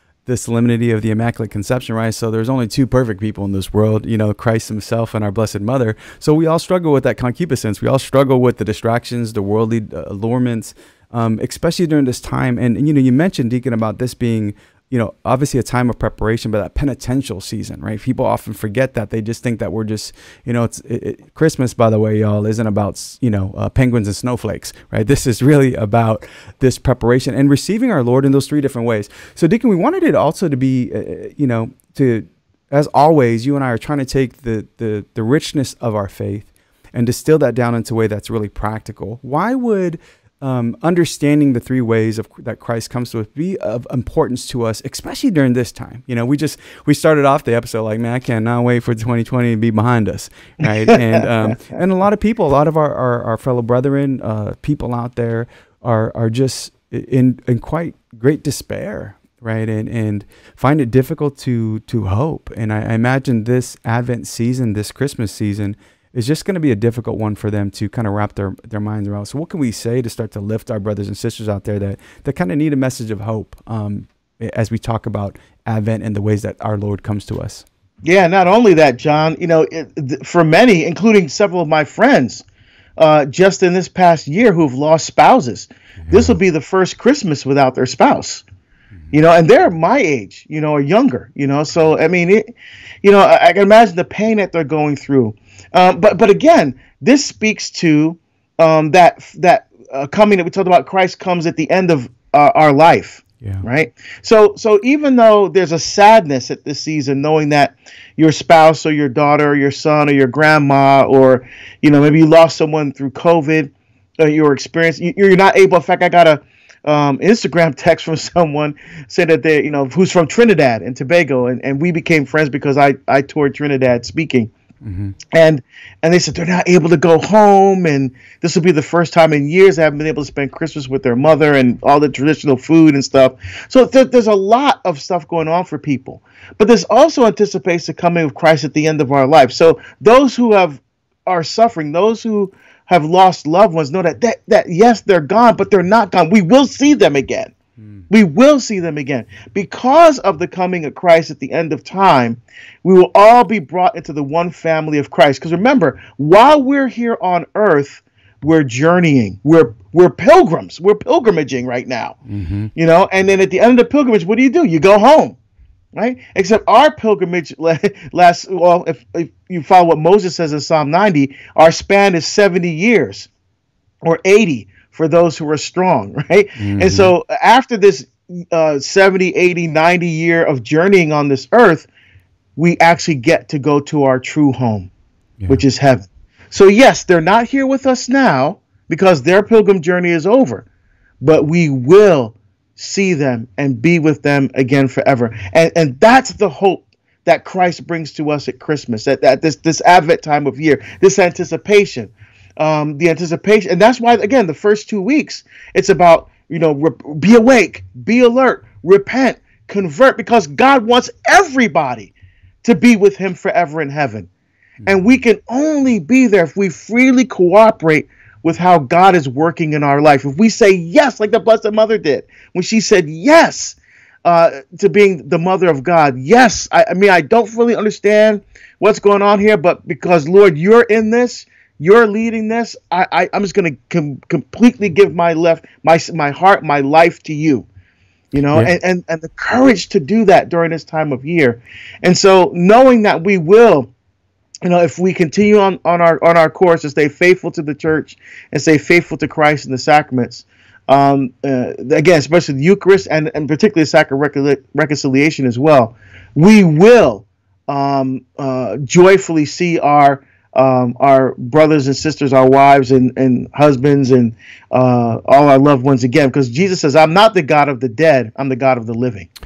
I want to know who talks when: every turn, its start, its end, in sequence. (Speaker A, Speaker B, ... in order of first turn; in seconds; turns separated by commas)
Speaker A: 0.2-77.6, Speaker B: 50.9-51.2, Speaker B: 78.0-82.4, Speaker B: 83.0-88.4, Speaker A: 86.1-86.3, Speaker B: 89.1-124.5, Speaker A: 124.8-125.2, Speaker B: 125.3-147.5, Speaker B: 148.1-162.2, Speaker A: 162.3-162.7, Speaker B: 162.8-165.4, Speaker B: 165.9-173.3, Speaker B: 174.0-181.9, Speaker A: 176.6-177.1, Speaker B: 182.6-184.9, Speaker B: 185.5-190.7, Speaker B: 191.2-214.3, Speaker B: 214.8-237.7, Speaker B: 238.3-243.9, Speaker B: 244.6-269.3